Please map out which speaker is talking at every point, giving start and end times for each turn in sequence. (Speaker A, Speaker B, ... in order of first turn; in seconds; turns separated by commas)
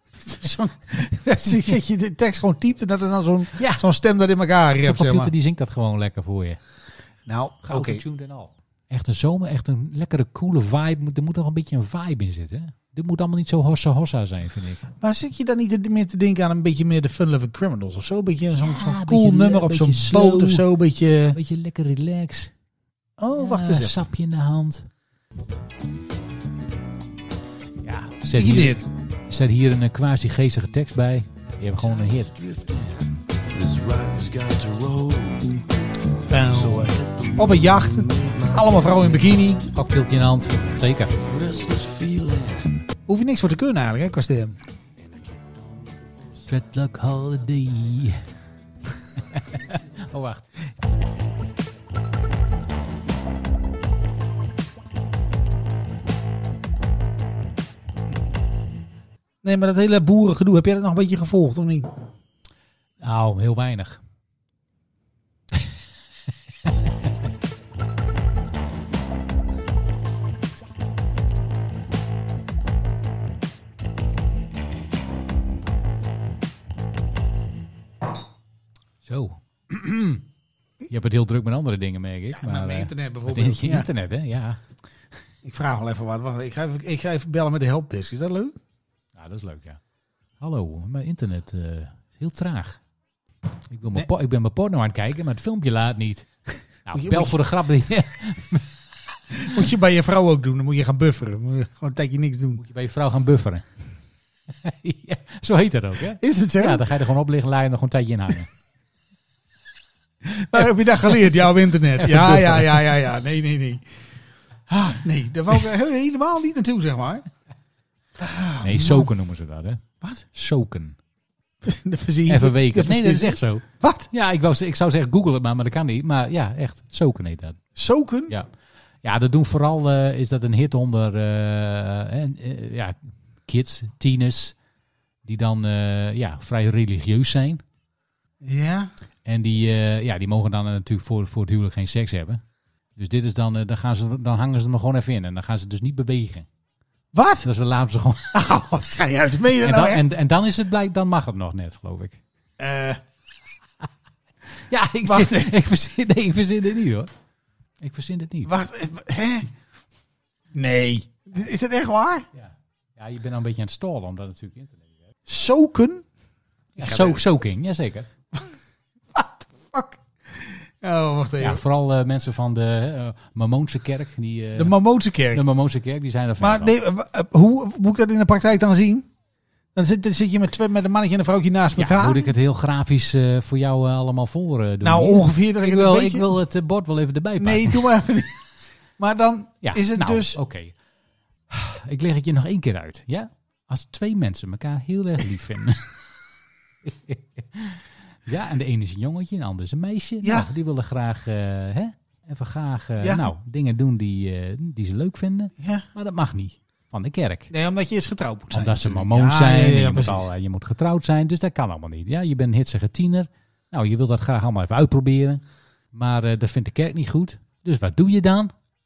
Speaker A: 0.2-5.3, Speaker B: 3.5-3.8, Speaker B: 4.8-6.6, Speaker A: 7.2-8.0, Speaker B: 7.6-14.8, Speaker A: 15.0-21.4, Speaker B: 18.6-20.6, Speaker B: 21.3-22.5, Speaker A: 23.2-24.0, Speaker B: 23.4-24.9, Speaker B: 27.8-32.5, Speaker A: 28.3-28.8, Speaker C: 33.6-35.5, Speaker A: 36.3-39.6, Speaker B: 39.7-41.1, Speaker A: 43.1-44.5, Speaker B: 46.4-48.2, Speaker B: 49.1-50.5, Speaker A: 59.4-61.9, Speaker B: 63.0-64.0, Speaker B: 79.0-80.2, Speaker B: 80.9-84.6, Speaker A: 82.3-83.9, Speaker A: 85.4-88.5, Speaker B: 89.1-89.8, Speaker B: 90.4-92.8, Speaker B: 93.7-96.3, Speaker B: 96.8-98.7, Speaker A: 96.9-97.4, Speaker A: 99.3-102.6, Speaker B: 102.6-103.7, Speaker B: 104.5-108.5, Speaker A: 106.2-106.8, Speaker A: 110.2-113.8, Speaker B: 112.0-112.9, Speaker A: 114.7-117.2, Speaker A: 118.2-119.1, Speaker B: 118.6-121.0, Speaker A: 121.6-124.1, Speaker B: 122.3-127.6, Speaker A: 127.7-128.3, Speaker B: 129.0-134.6, Speaker B: 135.2-137.6, Speaker A: 138.4-138.9, Speaker B: 139.2-142.4, Speaker B: 142.9-146.5, Speaker A: 147.1-147.4, Speaker B: 147.4-148.3, Speaker A: 148.3-150.0, Speaker B: 149.6-152.2, Speaker A: 152.6-153.0, Speaker B: 154.7-157.1, Speaker A: 155.0-155.5, Speaker B: 157.8-158.5, Speaker A: 158.4-159.5, Speaker A: 160.5-162.2, Speaker B: 162.3-164.9, Speaker A: 165.3-166.1, Speaker A: 166.8-167.2, Speaker B: 166.8-168.1, Speaker A: 169.1-171.6, Speaker B: 171.4-174.7, Speaker A: 174.6-175.4, Speaker B: 175.3-176.7, Speaker A: 176.4-179.1, Speaker A: 179.7-182.3, Speaker B: 181.8-187.9, Speaker A: 184.8-186.3, Speaker A: 187.4-188.4, Speaker A: 189.0-190.4, Speaker B: 189.6-190.8, Speaker B: 191.5-195.9, Speaker B: 196.8-207.5, Speaker A: 200.2-200.5, Speaker A: 203.0-203.3, Speaker A: 205.6-205.8, Speaker A: 207.5-210.3, Speaker B: 208.5-215.4, Speaker B: 215.9-218.5